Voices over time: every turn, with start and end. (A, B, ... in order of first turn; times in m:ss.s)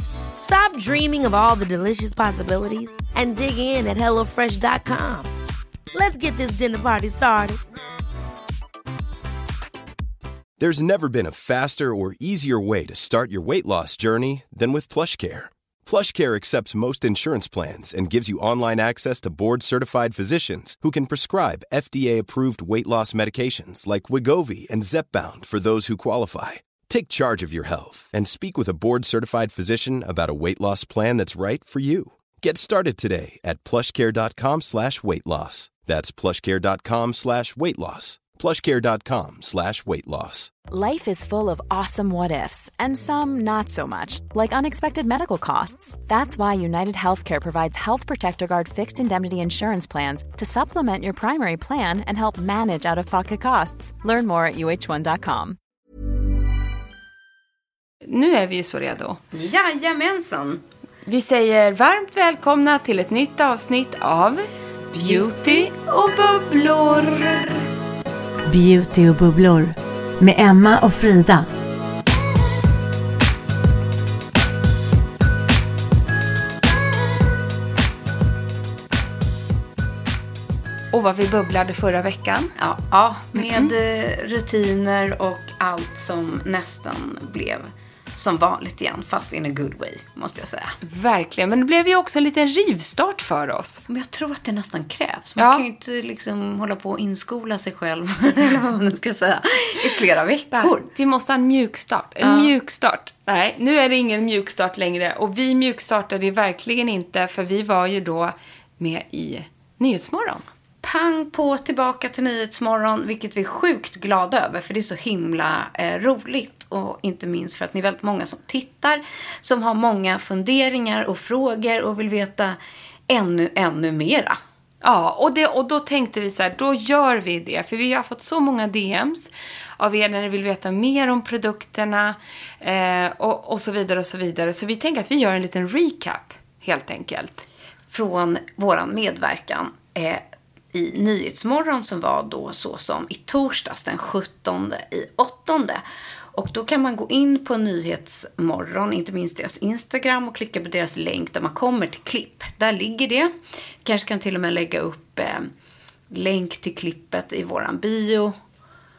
0:00.4-0:05.3 A
0:05.9-0:07.6 A
0:10.6-0:40.5 B
0:40.7-0:55.6 C
0:58.0-0:59.2 D
0:59.3-1:00.6 E
1:01.0-1:05.7 D
1:05.0-1:07.6 E
1:08.5-1:11.5 F
1:20.9-1:22.5 D
1:22.6-1:30.8 E
1:23.4-1:23.7 D
1:30.8-1:33.8 D
1:33.9-1:40.9 E
1:35.4-1:35.6 D
1:40.5-1:50.4 D
1:42.2-1:42.5 E
1:50.8-2:02.6 E
2:03.1-2:04.4 E
2:04.8-2:17.4 D
2:17.9-2:20.2 E
2:20.7-2:25.8 E
2:26.3-2:33.3 E
2:33.8-2:35.5 E
2:36.1-2:38.3 E